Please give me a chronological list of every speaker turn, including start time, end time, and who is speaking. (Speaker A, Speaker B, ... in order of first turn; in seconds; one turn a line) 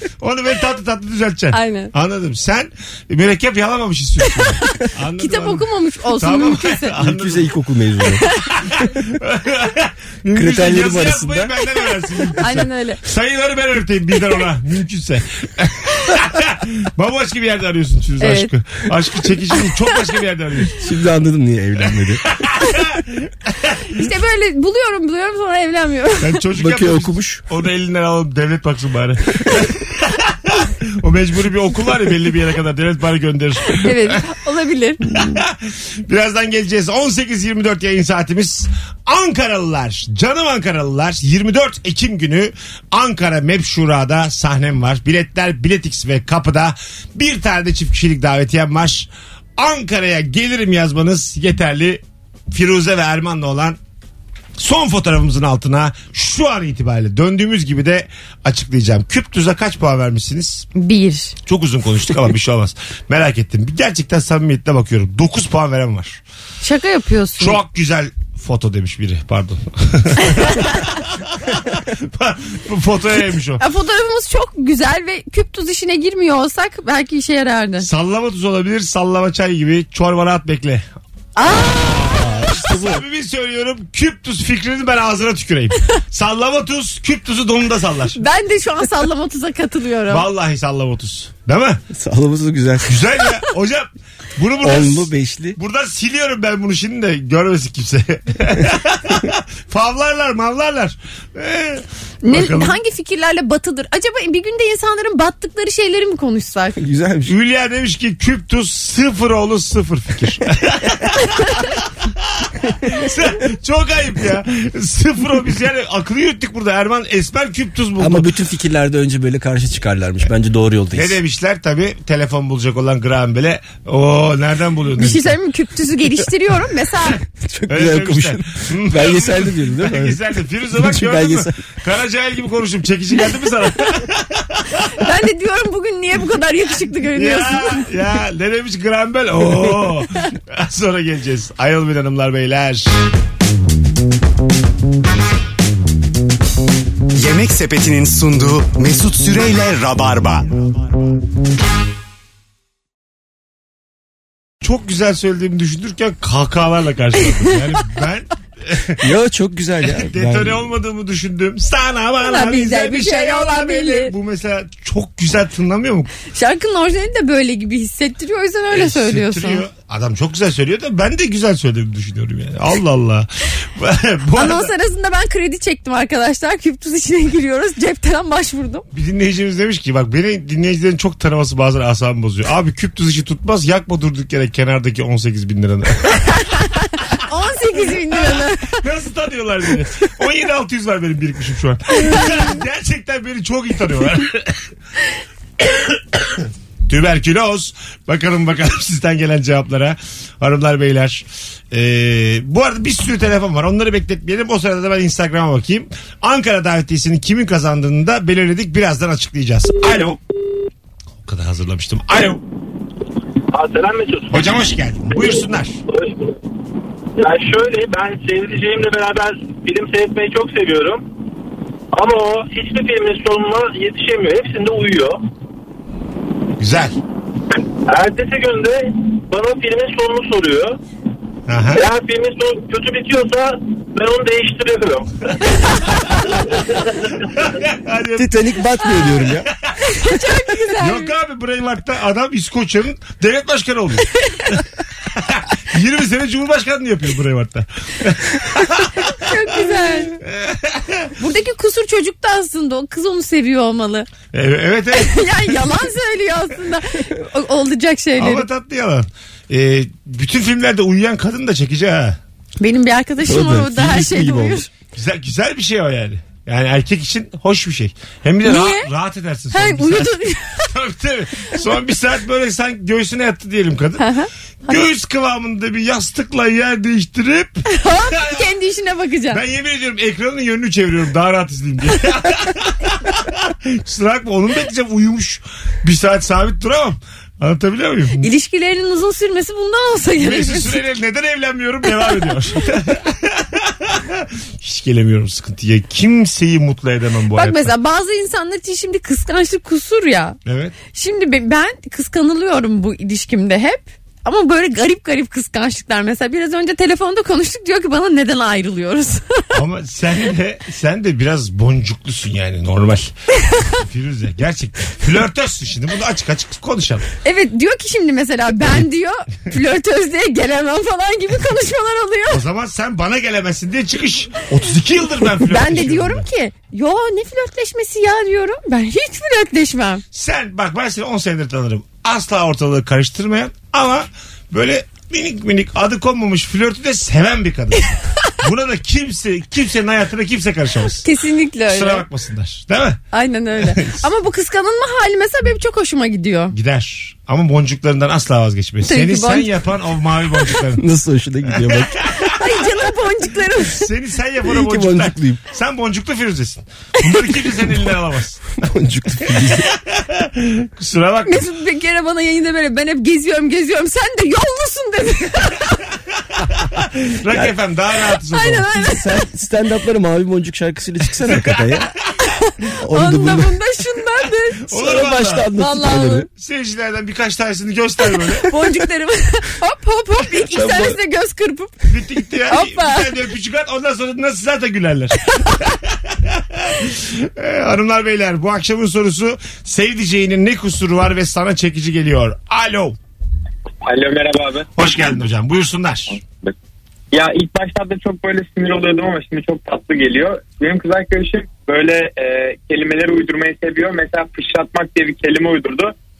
Speaker A: 0.2-7.5
Speaker B: 1.5-1.9
Speaker B: 4.6-6.9
Speaker C: 7.0-8.2
Speaker B: 8.1-8.5
Speaker A: 8.6-20.8
Speaker C: 10.3-11.5
Speaker B: 12.4-13.0
Speaker B: 18.2-18.5
Speaker C: 20.8-22.2
Speaker A: 22.3-23.9
Speaker B: 23.9-26.4
Speaker A: 26.2-34.2
Speaker C: 26.5-27.4
Speaker B: 33.7-35.0
Speaker A: 35.1-53.8
Speaker A: 54.6-60.7
Speaker B: 60.7-61.3
Speaker A: 61.4-66.2
Speaker B: 66.6-67.6
Speaker A: 67.4-73.6
Speaker B: 73.6-77.9
Speaker A: 77.8-80.8
Speaker B: 81.3-82.5
Speaker A: 81.6-88.2
Speaker C: 82.0-83.0
Speaker B: 88.2-90.3
Speaker A: 90.1-91.8
Speaker C: 91.9-93.0
Speaker A: 92.8-102.8
Speaker C: 94.6-95.6
Speaker B: 102.2-106.8
Speaker C: 106.8-107.3
Speaker A: 107.3-118.3
Speaker C: 118.0-121.2
Speaker A: 120.9-125.3
Speaker B: 125.0-127.2
Speaker C: 127.3-131.7
Speaker A: 127.7-134.9
Speaker B: 134.9-137.9
Speaker A: 137.1-142.9
Speaker D: 147.1-150.6
Speaker A: 154.6-159.0
Speaker C: 159.0-160.7
Speaker A: 159.8-166.1
Speaker B: 162.2-164.1
Speaker B: 166.3-169.6
Speaker A: 168.7-174.7
Speaker B: 174.3-178.8
Speaker A: 178.9-186.6
Speaker B: 186.4-188.8
Speaker A: 187.8-194.6
Speaker A: 195.6-210.2
Speaker A: 211.2-212.4
Speaker E: 213.5-214.4
Speaker A: 214.3-215.8
Speaker E: 215.9-216.3
Speaker E: 217.2-221.0
Speaker E: 221.9-225.2
Speaker A: 226.6-226.9
Speaker E: 227.8-230.8
Speaker A: 231.5-231.8
Speaker E: 231.7-235.1
Speaker A: 235.9-236.3
Speaker A: 237.2-238.3
Speaker C: 238.1-239.5
Speaker B: 239.8-241.1
Speaker A: 240.8-249.1
Speaker B: 249.0-250.2
Speaker A: 250.2-251.1
Speaker B: 251.2-254.1
Speaker A: 254.3-255.7
Speaker B: 254.9-258.4
Speaker A: 258.2-262.2
Speaker B: 262.6-264.7
Speaker C: 263.2-264.7
Speaker A: 264.9-274.1
Speaker B: 268.4-268.9
Speaker B: 269.5-270.7
Speaker B: 274.0-274.8
Speaker A: 274.6-278.5
Speaker B: 277.6-279.4
Speaker A: 279.3-288.3
Speaker B: 288.2-290.8
Speaker A: 290.2-297.7
Speaker B: 297.3-300.4
Speaker A: 300.4-300.7
Speaker B: 300.9-309.4
Speaker A: 309.5-313.1
Speaker A: 313.7-317.1
Speaker B: 317.2-322.4
Speaker A: 322.3-326.2
Speaker B: 325.4-330.0
Speaker A: 330.1-337.9
Speaker A: 338.4-341.0
Speaker B: 341.0-342.0
Speaker A: 341.7-343.0
Speaker B: 343.1-346.5
Speaker A: 343.6-344.0
Speaker A: 346.5-350.8
Speaker B: 348.9-349.5
Speaker C: 350.8-352.0
Speaker A: 351.6-352.4
Speaker B: 352.2-353.9
Speaker A: 353.6-358.6
Speaker C: 354.4-355.4
Speaker C: 358.6-359.7
Speaker A: 359.5-361.4
Speaker B: 361.2-365.8
Speaker A: 366.6-368.7
Speaker C: 367.3-367.6
Speaker B: 368.3-369.2
Speaker C: 368.7-371.9
Speaker A: 371.2-371.9
Speaker B: 372.2-374.7
Speaker C: 372.8-373.6
Speaker A: 374.7-375.5
Speaker C: 374.7-376.3
Speaker B: 375.5-376.3
Speaker A: 376.3-378.5
Speaker B: 378.4-381.8
Speaker C: 380.5-380.9
Speaker A: 381.9-393.0
Speaker B: 382.5-383.1
Speaker F: 393.8-394.7
Speaker A: 394.8-396.2
Speaker F: 397.1-405.9